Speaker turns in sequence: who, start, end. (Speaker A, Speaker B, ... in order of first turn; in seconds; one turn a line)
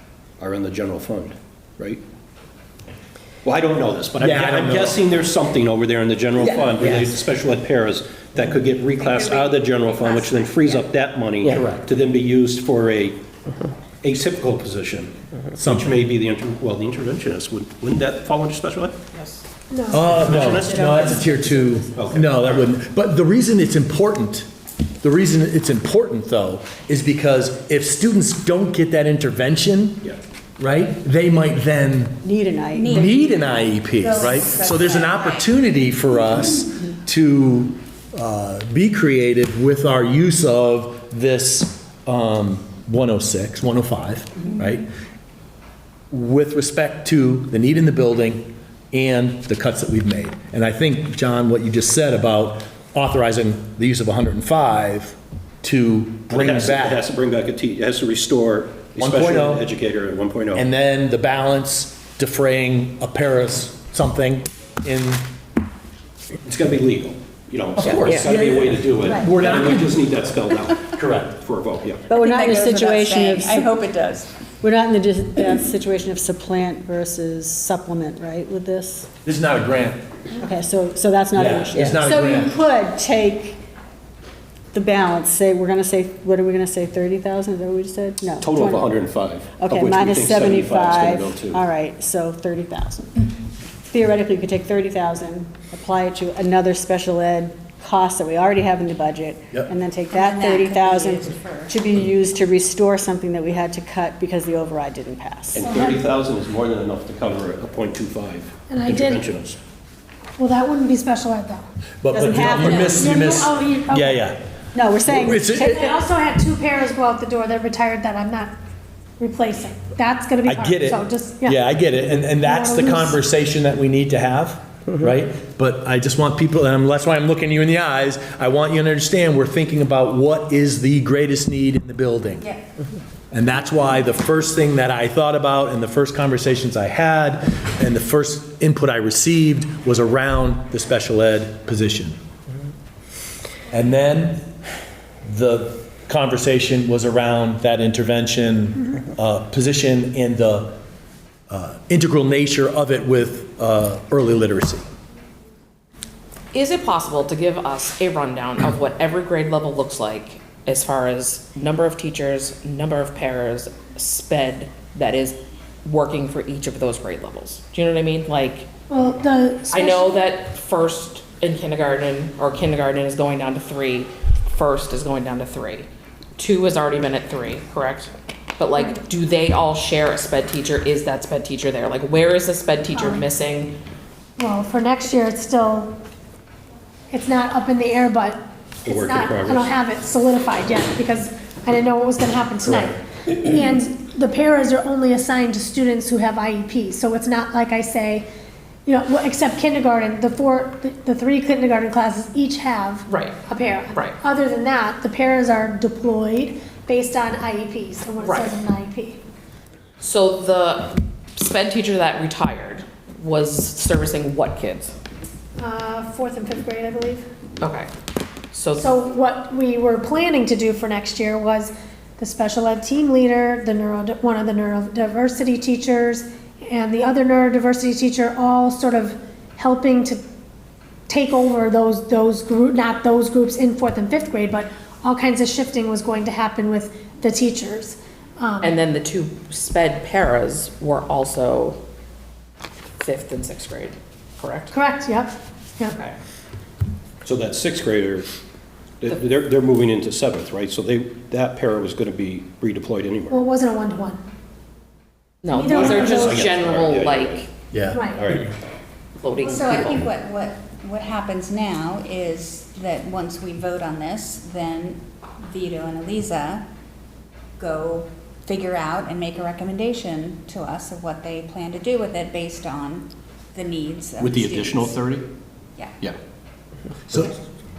Speaker A: 0.4-2.0
Speaker A: 3.4-13.2
Speaker B: 4.2-5.0
Speaker B: 6.7-7.1
Speaker C: 8.9-10.8
Speaker B: 11.5-11.8
Speaker A: 14.0-19.0
Speaker B: 15.6-16.0
Speaker D: 19.1-19.4
Speaker E: 19.7-21.0
Speaker B: 19.9-24.5
Speaker F: 20.1-22.2
Speaker A: 20.1-20.9
Speaker A: 21.9-22.6
Speaker B: 25.0-30.1
Speaker B: 30.6-32.2
Speaker F: 32.2-33.1
Speaker C: 32.8-36.4
Speaker B: 32.9-44.9
Speaker B: 46.1-57.0
Speaker A: 56.3-60.7
Speaker B: 59.0-59.6
Speaker B: 60.5-65.2
Speaker A: 66.4-72.1
Speaker B: 67.8-69.9
Speaker D: 67.9-68.2
Speaker F: 69.0-69.4
Speaker B: 70.8-71.4
Speaker F: 72.1-73.8
Speaker C: 72.2-74.3
Speaker F: 74.6-79.1
Speaker B: 79.2-80.0
Speaker F: 80.4-83.6
Speaker B: 81.3-82.6
Speaker F: 84.7-89.0
Speaker A: 88.4-91.6
Speaker F: 89.6-93.3
Speaker F: 93.9-105.7
Speaker C: 100.1-101.7
Speaker A: 105.5-109.6
Speaker E: 105.6-106.0
Speaker E: 108.7-109.3
Speaker E: 110.4-111.7
Speaker B: 112.0-114.4
Speaker F: 112.1-113.1
Speaker E: 112.8-114.2
Speaker F: 114.7-115.5
Speaker B: 115.1-115.9
Speaker E: 115.5-118.5
Speaker E: 119.2-121.6
Speaker B: 120.5-132.5
Speaker E: 122.4-123.2
Speaker B: 133.3-142.1
Speaker B: 143.7-144.4
Speaker B: 145.3-150.7
Speaker B: 151.5-154.8
Speaker D: 156.5-168.7
Speaker E: 168.9-170.2
Speaker D: 169.7-183.7
Speaker E: 182.9-183.2
Speaker E: 184.4-185.9
Speaker E: 187.1-198.2
Speaker A: 188.8-189.7
Speaker E: 198.8-209.2
Speaker D: 203.1-203.4
Speaker D: 208.2-208.5
Speaker D: 210.0-214.9
Speaker E: 215.6-217.2
Speaker D: 217.6-217.9
Speaker D: 218.5-218.9
Speaker E: 218.8-230.2
Speaker E: 231.1-238.8
Speaker D: 238.6-241.8
Speaker D: 243.0-244.7
Speaker E: 244.7-245.9
Speaker D: 245.9-246.2
Speaker A: 247.2-248.3
Speaker A: 249.0-253.4
Speaker E: 253.3-254.2
Speaker D: 255.4-257.5
Speaker E: 255.5-256.5
Speaker A: 255.7-257.4
Speaker B: 257.7-258.5
Speaker E: 257.9-258.2
Speaker A: 258.0-258.5
Speaker D: 259.2-260.1
Speaker C: 259.3-266.7
Speaker C: 267.6-275.0
Speaker A: 274.2-275.3
Speaker B: 277.1-277.3